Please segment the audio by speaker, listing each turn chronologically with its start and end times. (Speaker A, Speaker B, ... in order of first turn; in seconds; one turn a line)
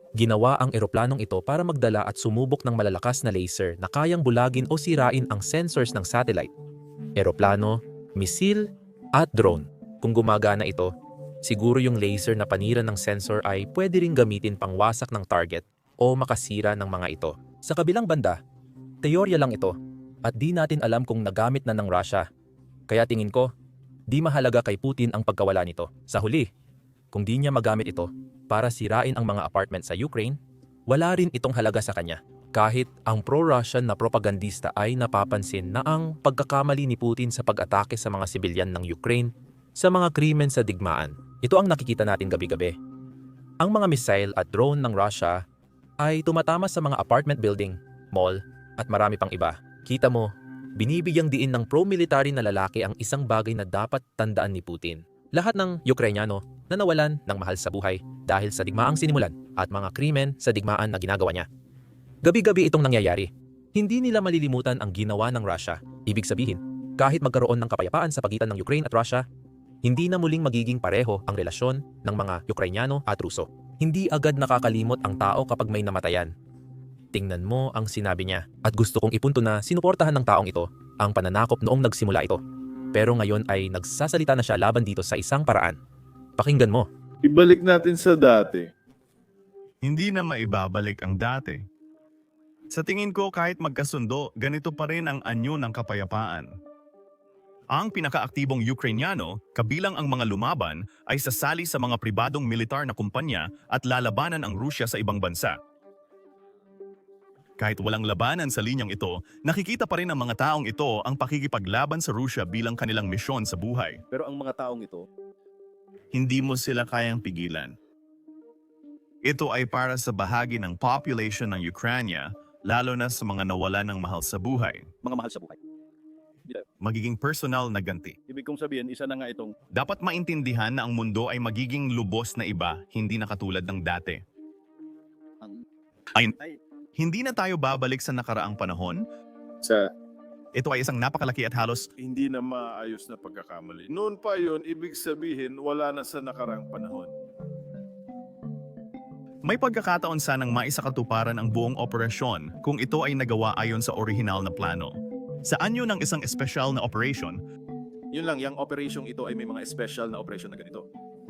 Speaker A: 0.2-6.5
Speaker A: 7.2-10.9
Speaker A: 11.4-18.4
Speaker A: 19.0-22.2
Speaker A: 22.9-23.5
Speaker A: 24.1-26.5
Speaker A: 27.1-30.4
Speaker A: 30.9-42.8
Speaker A: 43.6-45.4
Speaker A: 46.0-61.5
Speaker A: 62.2-69.2
Speaker A: 69.8-76.3
Speaker A: 77.1-82.4
Speaker A: 82.9-85.8
Speaker A: 86.4-86.9
Speaker B: 87.2-88.7
Speaker C: 89.8-91.6
Speaker C: 92.7-96.5
Speaker C: 97.8-105.5
Speaker C: 107.6-114.0
Speaker B: 114.1-115.0
Speaker C: 116.1-117.7
Speaker C: 119.2-125.0
Speaker B: 125.1-125.5
Speaker C: 126.8-128.2
Speaker B: 128.3-129.5
Speaker C: 129.7-134.2
Speaker C: 137.0-139.0
Speaker C: 140.6-141.9
Speaker B: 142.0-147.1
Speaker C: 149.5-154.9
Speaker C: 155.5-157.4
Speaker B: 158.1-160.8